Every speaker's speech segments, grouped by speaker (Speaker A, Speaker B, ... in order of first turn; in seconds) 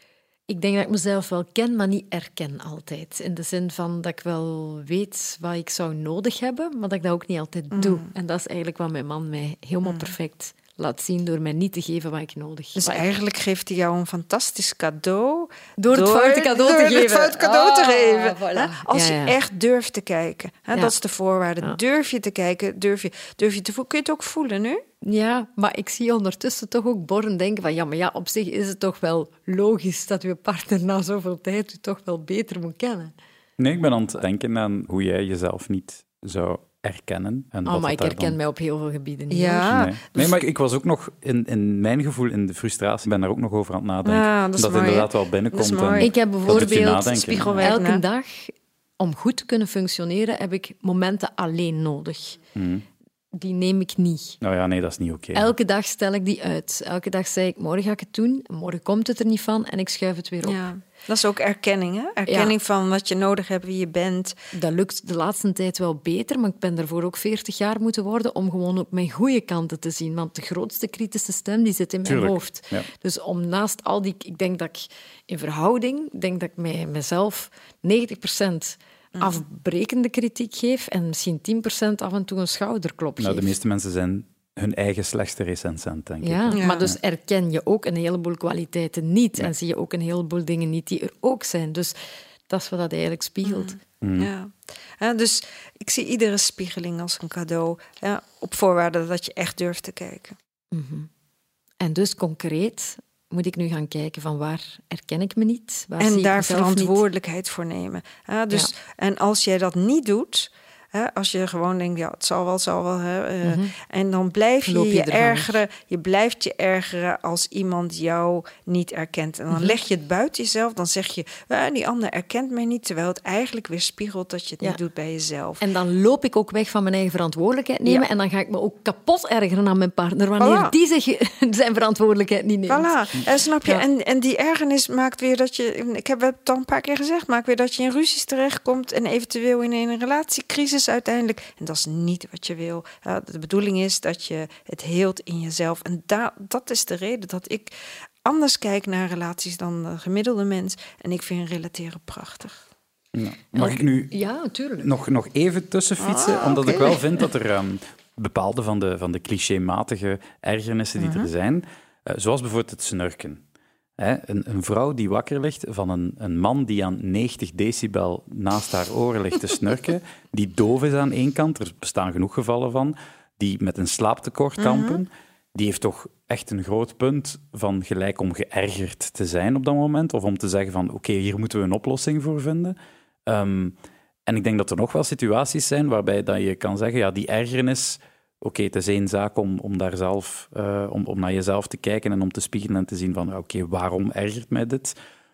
Speaker A: 0.5-13.1, 15.8-19.4, 25.0-33.1, 37.6-39.8, 46.0-52.4, 53.3-54.4, 55.3-60.6, 62.3-62.5, 64.5-83.5, 86.2-91.9, 92.5-93.8, 100.7-101.1, 101.8-107.0, 113.4-113.7, 114.6-115.6, 119.5-119.8, 125.6-132.9, 153.6-154.9
Speaker B: 7.7-8.1, 9.8-10.1, 12.8-24.8, 39.3-40.4, 44.0-46.1, 47.1-48.0, 60.4-64.3, 86.5-86.8, 93.4-100.3, 106.0-125.6, 130.4-130.7, 132.7-147.7, 148.2-152.6, 156.0-157.0, 161.0-161.3, 174.6-175.0
Speaker C: 33.6-38.4, 39.7-47.7, 52.5-52.8, 54.4-55.5, 72.0-72.8, 83.2-87.0, 94.0-94.3, 153.1-154.1, 154.8-163.4, 164.0-183.7, 184.3-194.9